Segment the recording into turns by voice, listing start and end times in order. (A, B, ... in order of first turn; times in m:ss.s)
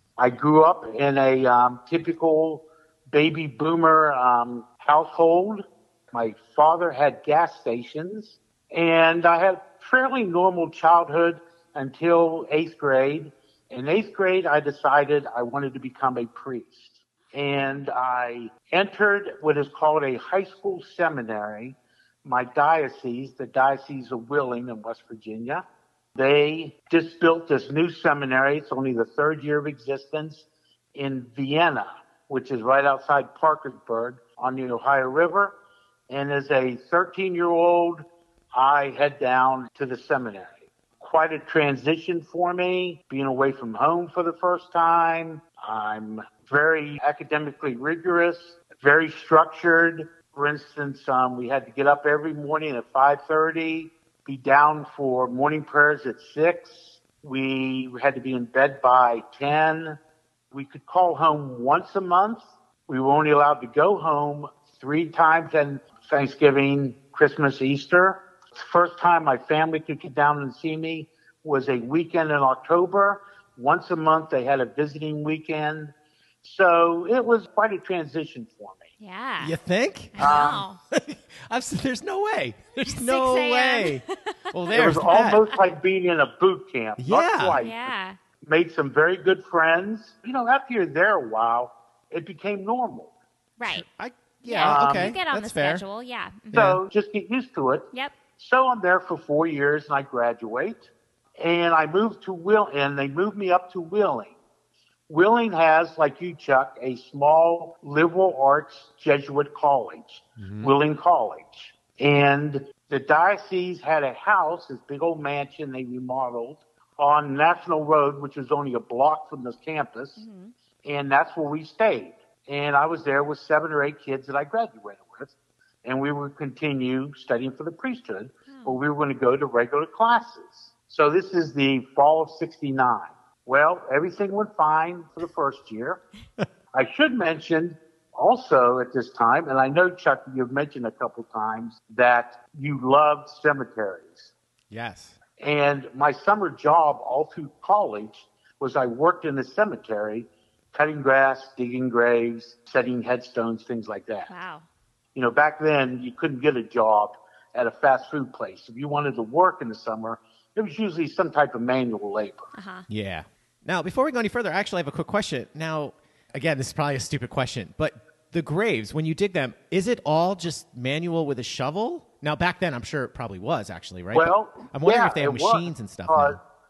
0:00.2-0:25.6 A
0:26.2-0:35.6 A
0:36.1-1:00.0 A
1:00.5-1:18.9 A
1:19.0-1:19.5 B
1:19.4-1:25.5 C
1:20.1-1:20.8 B
1:20.2-1:20.6 A
1:22.9-1:24.3 B
1:24.7-1:33.1 A
1:27.0-1:27.6 C
1:27.6-1:28.2 B
1:33.6-1:33.9 B
1:33.6-1:35.8 C
1:34.4-1:36.6 B
1:34.6-1:35.2 A
1:36.5-1:36.8 C
1:36.5-1:44.4 A
1:45.1-2:00.2 A
2:00.2-2:00.5 B
2:00.8-2:16.0 A
2:08.5-2:08.8 B
2:16.7-2:24.3 A
2:24.7-2:25.2 C
2:25.4-2:34.3 A
2:34.3-2:34.6 B
2:35.2-2:42.5 A
2:42.5-2:42.9 B
2:42.9-2:56.4 C
2:54.1-2:56.4 A